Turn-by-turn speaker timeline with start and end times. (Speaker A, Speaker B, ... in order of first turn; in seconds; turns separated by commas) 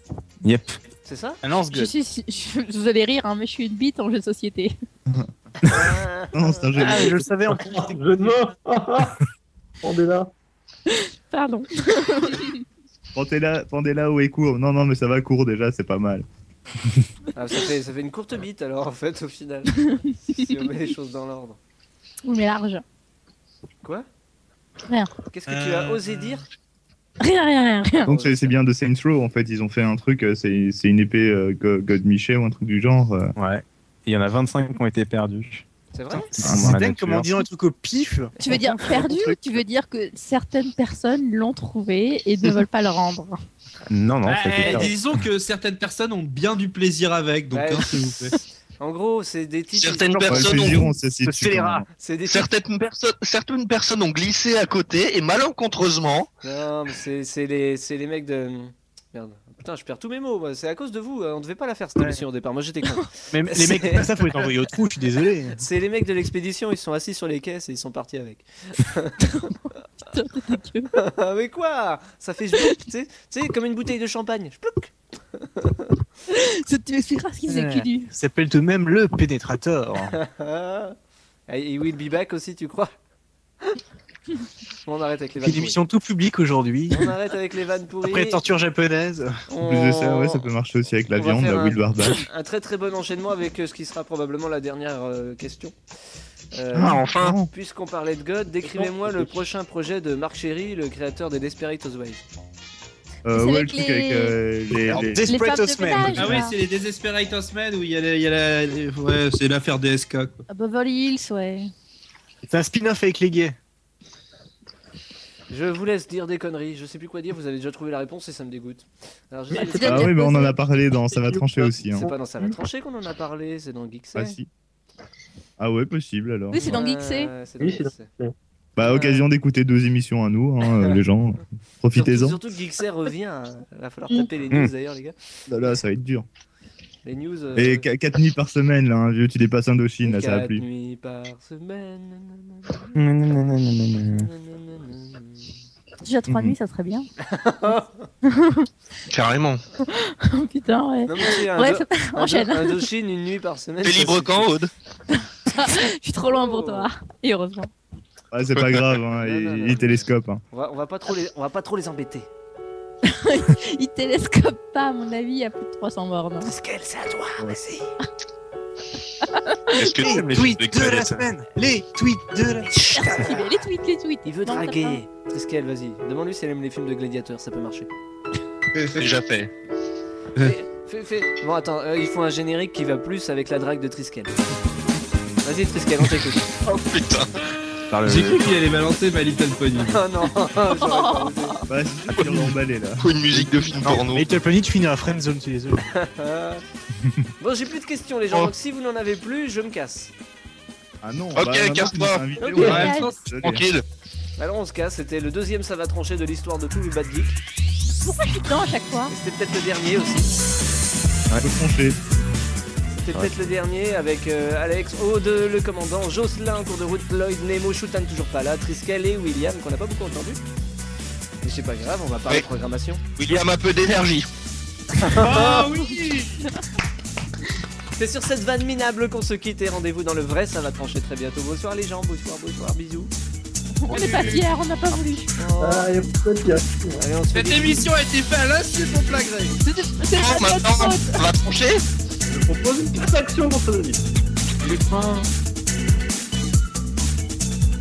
Speaker A: 0.4-0.8, Speaker B: 1.0-1.4, Speaker C: 1.4-1.9, Speaker D: 1.7-4.7, Speaker B: 5.6-7.2, Speaker E: 6.3-7.2, Speaker C: 6.8-8.3, Speaker F: 7.5-9.2, Speaker F: 9.8-10.3, Speaker D: 11.3-12.6, Speaker E: 13.1-16.2, Speaker B: 17.4-21.6, Speaker D: 19.8-20.4, Speaker D: 22.2-22.8, Speaker B: 25.3-26.4, Speaker C: 25.5-26.4, Speaker D: 27.2-28.1, Speaker B: 28.1-28.5, Speaker E: 28.1-33.3, Speaker A: 33.4-35.6, Speaker B: 35.9-36.3, Speaker A: 36.4-37.2, Speaker C: 36.4-39.6, Speaker E: 36.4-37.2, Speaker B: 38.4-38.6, Speaker D: 38.4-43.4, Speaker A: 43.9-44.9, Speaker G: 44.2-48.4, Speaker B: 44.6-44.9, Speaker B: 47.5-48.0, Speaker B: 48.8-50.7, Speaker H: 49.8-50.9, Speaker E: 50.3-51.8, Speaker C: 51.2-51.8, Speaker B: 52.0-52.5, Speaker H: 52.3-56.3, Speaker B: 56.4-64.6, Speaker C: 63.3-65.6, Speaker B: 65.6-69.2, Speaker D: 69.2-70.9, Speaker B: 70.9-75.9, Speaker D: 76.3-78.1, Speaker C: 77.5-80.2, Speaker B: 80.1-81.0, Speaker B: 81.5-82.9, Speaker B: 84.8-85.8, Speaker C: 85.4-87.1, Speaker B: 86.9-88.4, Speaker C: 88.0-89.3, Speaker B: 89.5-90.5, Speaker E: 89.6-92.2, Speaker B: 91.1-95.7, Speaker B: 96.5-102.2, Speaker H: 96.7-97.4, Speaker E: 97.2-97.5, Speaker C: 98.6-99.3, Speaker E: 103.2-105.3, Speaker D: 103.3-104.3, Speaker C: 104.9-106.5, Speaker D: 105.2-106.5, Speaker G: 106.1-110.4, Speaker D: 110.5-111.7, Speaker C: 112.4-113.5, Speaker B: 115.5-120.4, Speaker D: 119.5-120.6, Speaker E: 119.8-122.1, Speaker B: 121.1-124.4, Speaker E: 124.1-124.5, Speaker E: 125.6-126.7, Speaker D: 126.5-127.3, Speaker B: 126.6-128.1, Speaker F: 127.6-128.3, Speaker E: 128.8-132.4, Speaker B: 128.8-129.3, Speaker B: 130.6-130.9, Speaker B: 131.9-135.1, Speaker E: 135.5-136.2, Speaker B: 137.0-137.9, Speaker E: 137.6-140.6, Speaker B: 140.0-143.0, Speaker A: 142.9-144.3, Speaker B: 144.2-145.5, Speaker D: 146.0-147.1, Speaker E: 146.3-146.6, Speaker B: 147.2-148.1, Speaker D: 148.2-148.7, Speaker H: 149.1-149.6, Speaker D: 149.9-152.8, Speaker B: 151.1-154.5, Speaker H: 153.8-154.7, Speaker D: 155.4-157.7, Speaker B: 156.2-156.9, Speaker E: 158.3-160.4, Speaker H: 158.6-158.9, Speaker B: 159.1-162.3, Speaker D: 163.1-166.5, Speaker B: 166.4-167.9, Speaker D: 169.7-169.9, Speaker H: 169.8-171.2, Speaker C: 169.9-172.7, Speaker D: 172.7-175.0, Speaker B: 174.2-177.9, Speaker G: 178.7-179.1, Speaker H: 178.9-179.5, Speaker B: 180.4-184.4, Speaker B: 185.4-186.5, Speaker H: 186.6-187.4, Speaker A: 187.9-188.5, Speaker G: 188.1-190.0, Speaker B: 189.9-191.6, Speaker D: 190.7-191.6, Speaker E: 191.7-193.9, Speaker H: 192.1-194.3, Speaker C: 193.8-195.8, Speaker B: 195.9-196.6, Speaker B: 197.4-200.1, Speaker E: 201.0-203.6, Speaker H: 201.3-202.2, Speaker B: 202.4-202.9, Speaker D: 202.6-203.2, Speaker G: 202.6-203.2, Speaker H: 203.4-203.8, Speaker B: 204.4-207.4, Speaker D: 208.0-209.1, Speaker B: 209.1-210.4, Speaker E: 211.4-212.0, Speaker B: 212.9-220.4, Speaker B: 221.4-223.0, Speaker H: 223.2-224.3, Speaker B: 225.0-225.7, Speaker G: 225.1-226.4, Speaker B: 228.0-233.1, Speaker D: 233.8-235.3, Speaker G: 233.9-234.4, Speaker B: 235.3-235.9, Speaker F: 235.6-237.0, Speaker B: 236.9-237.9, Speaker G: 237.3-239.5, Speaker D: 239.6-241.2, Speaker H: 240.1-241.8, Speaker F: 242.3-244.0, Speaker F: 244.7-245.2